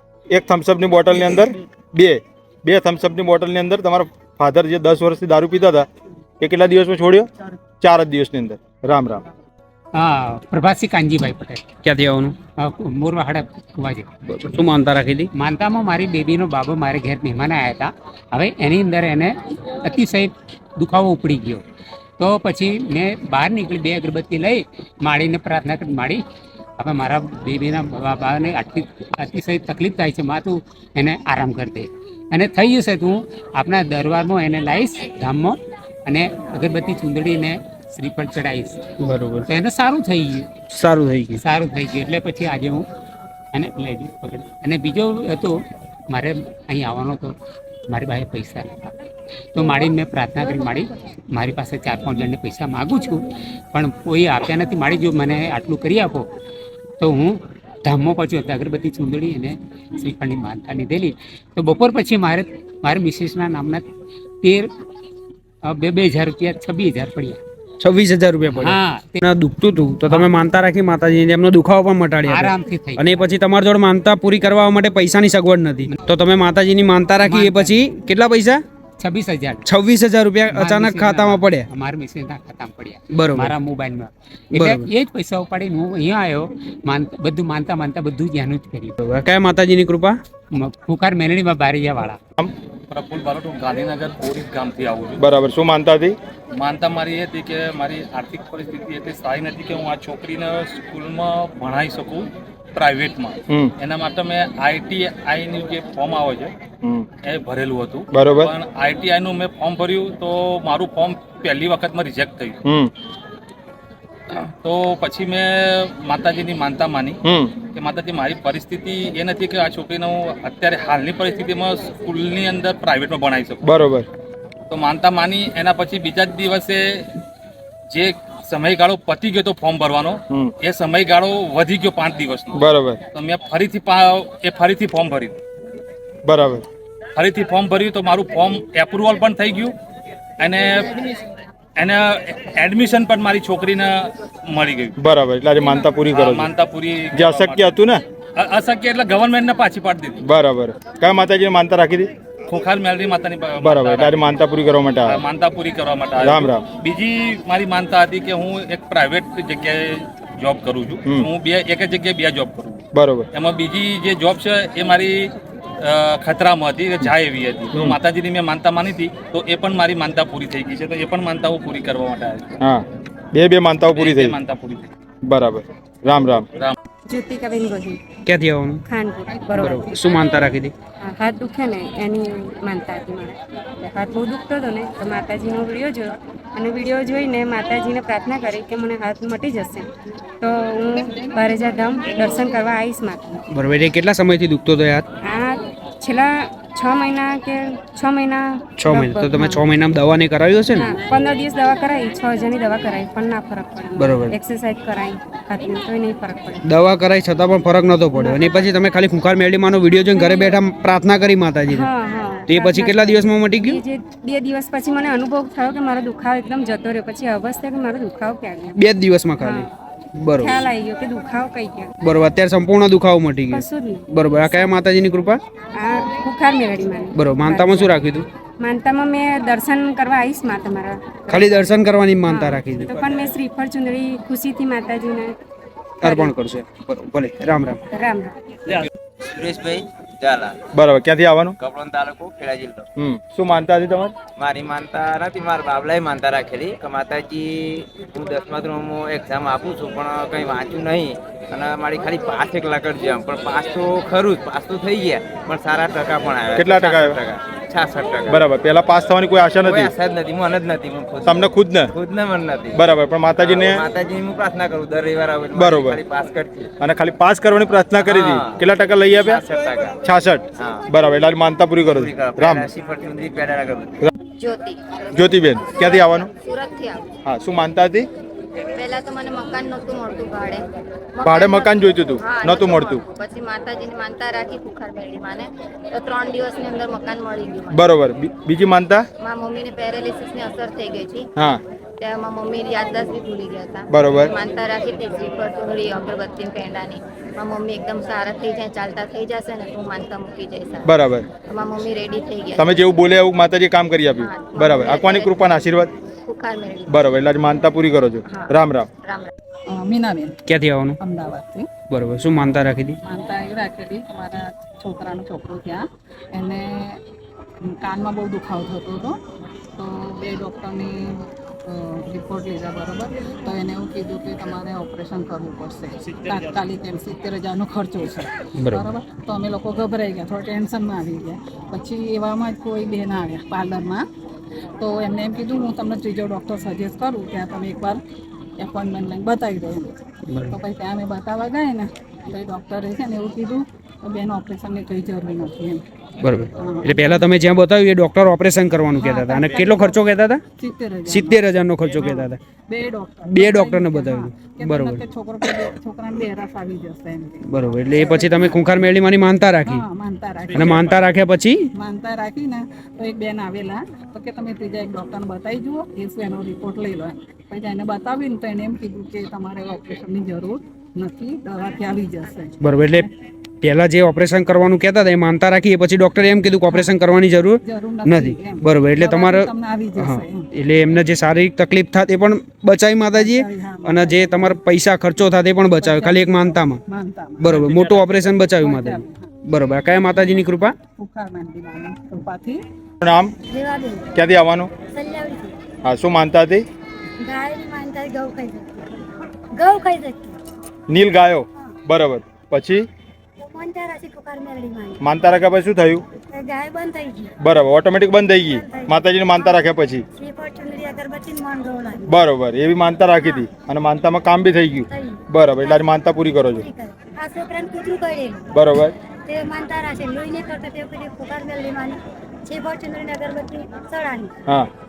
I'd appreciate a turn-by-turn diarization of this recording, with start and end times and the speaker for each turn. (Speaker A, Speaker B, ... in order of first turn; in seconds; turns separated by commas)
Speaker A: 0.3-5.9, Speaker A: 6.4-7.3, Speaker A: 7.8-9.2, Speaker B: 9.9-11.7, Speaker C: 11.8-12.3, Speaker B: 12.6-14.1, Speaker C: 14.3-15.3, Speaker B: 15.3-21.6, Speaker B: 22.2-26.2, Speaker B: 26.8-38.8, Speaker C: 39.0-39.5, Speaker B: 39.4-40.5, Speaker C: 40.7-41.4, Speaker B: 41.3-42.8, Speaker B: 43.5-45.5, Speaker B: 46.1-47.3, Speaker B: 47.9-48.8, Speaker B: 49.5-56.2, Speaker B: 57.0-63.8, Speaker B: 64.4-64.7, Speaker B: 65.6-67.4, Speaker C: 67.8-78.6, Speaker B: 68.5-69.2, Speaker B: 70.1-70.4, Speaker B: 72.2-73.2, Speaker B: 77.2-77.8, Speaker B: 79.0-79.7, Speaker C: 79.7-81.7, Speaker B: 80.5-88.9, Speaker C: 83.1-83.5, Speaker C: 84.5-84.9, Speaker C: 89.0-90.2, Speaker B: 90.5-92.2, Speaker D: 92.9-95.2, Speaker A: 95.2-96.2, Speaker D: 96.5-106.5, Speaker D: 107.2-112.6, Speaker A: 108.1-108.5, Speaker A: 112.6-112.9, Speaker D: 114.3-117.2, Speaker A: 117.2-117.5, Speaker D: 117.7-123.6, Speaker A: 123.6-124.1, Speaker D: 124.7-127.1, Speaker D: 127.9-132.6, Speaker A: 132.5-133.0, Speaker D: 133.1-135.4, Speaker A: 136.2-136.6, Speaker D: 137.2-139.7, Speaker D: 140.4-141.2, Speaker D: 141.8-144.9, Speaker A: 145.0-146.5, Speaker D: 145.6-147.7, Speaker A: 147.1-148.0, Speaker D: 148.3-150.2, Speaker A: 150.2-152.1, Speaker D: 152.5-154.4, Speaker A: 153.6-155.2, Speaker D: 155.1-162.8, Speaker A: 156.2-156.6, Speaker A: 162.9-163.3, Speaker D: 163.3-165.3, Speaker D: 165.8-172.5, Speaker A: 167.7-168.0, Speaker A: 172.6-174.4, Speaker D: 173.9-174.9, Speaker A: 175.2-176.5, Speaker E: 177.1-178.0, Speaker C: 178.2-178.8, Speaker E: 178.8-179.7, Speaker F: 179.3-180.4, Speaker C: 179.5-180.8, Speaker E: 181.0-189.9, Speaker E: 190.4-193.4, Speaker F: 191.2-191.7, Speaker C: 193.5-195.1, Speaker E: 195.2-199.7, Speaker C: 198.8-201.0, Speaker E: 200.7-206.6, Speaker C: 204.0-204.4, Speaker C: 206.6-211.9, Speaker E: 208.1-208.6, Speaker E: 210.1-210.6, Speaker E: 211.7-218.8, Speaker C: 212.5-213.8, Speaker C: 218.7-220.7, Speaker E: 219.4-219.7, Speaker E: 220.4-221.9, Speaker C: 222.0-225.4, Speaker E: 223.5-224.7, Speaker E: 225.8-228.0, Speaker C: 227.1-228.2, Speaker E: 228.6-235.3, Speaker C: 231.3-233.0, Speaker C: 236.0-237.8, Speaker E: 236.0-236.4, Speaker E: 237.9-238.3, Speaker G: 239.3-240.6, Speaker A: 240.7-241.6, Speaker G: 241.6-242.9, Speaker A: 243.0-244.1, Speaker G: 244.3-258.4, Speaker A: 256.5-257.2, Speaker A: 258.3-259.9, Speaker G: 259.6-262.8, Speaker A: 261.2-261.9, Speaker A: 262.7-263.8, Speaker G: 263.4-266.7, Speaker A: 265.5-266.0, Speaker A: 266.8-269.4, Speaker G: 268.0-270.0, Speaker A: 270.0-272.7, Speaker G: 270.6-270.9, Speaker G: 271.9-273.9, Speaker H: 274.4-275.2, Speaker A: 275.1-276.3, Speaker H: 275.8-277.0, Speaker A: 277.2-278.1, Speaker H: 278.8-280.6, Speaker H: 281.1-287.7, Speaker A: 281.2-283.0, Speaker A: 287.7-289.0, Speaker H: 289.2-291.3, Speaker H: 292.0-300.9, Speaker A: 293.9-294.3, Speaker A: 300.8-301.2, Speaker H: 301.5-302.7, Speaker A: 302.6-305.9, Speaker H: 304.2-305.4, Speaker H: 306.2-306.9, Speaker A: 306.9-308.9, Speaker F: 309.7-310.4, Speaker C: 310.4-311.0, Speaker F: 311.0-311.7, Speaker C: 311.8-313.0, Speaker F: 313.0-317.0, Speaker F: 317.7-319.2, Speaker F: 319.8-334.0, Speaker C: 328.6-328.9, Speaker F: 334.8-338.0, Speaker F: 338.6-339.9, Speaker C: 340.3-340.6, Speaker F: 340.5-345.8, Speaker C: 346.2-350.4, Speaker F: 346.5-347.2, Speaker F: 349.0-357.4, Speaker C: 351.1-352.4, Speaker C: 353.2-355.5, Speaker C: 357.4-359.9, Speaker F: 358.0-358.5, Speaker F: 359.6-361.2, Speaker C: 360.5-361.7, Speaker F: 361.7-373.1, Speaker C: 372.6-373.1, Speaker C: 373.6-386.8, Speaker F: 376.7-376.9, Speaker F: 377.6-380.5, Speaker F: 383.1-384.6, Speaker F: 385.8-389.3, Speaker C: 387.4-390.8, Speaker F: 390.9-392.6, Speaker A: 393.0-393.3, Speaker I: 393.5-394.1, Speaker A: 394.1-394.7, Speaker I: 394.9-395.5, Speaker A: 395.8-396.6, Speaker I: 397.2-398.9, Speaker I: 399.6-400.3, Speaker A: 400.9-402.8, Speaker I: 403.4-405.0, Speaker A: 405.0-406.0, Speaker I: 406.3-407.3, Speaker A: 407.4-410.0, Speaker I: 408.4-412.1, Speaker A: 412.1-416.7, Speaker I: 413.2-413.5, Speaker I: 414.9-415.8, Speaker I: 416.5-418.4, Speaker A: 418.5-418.9, Speaker I: 419.3-424.3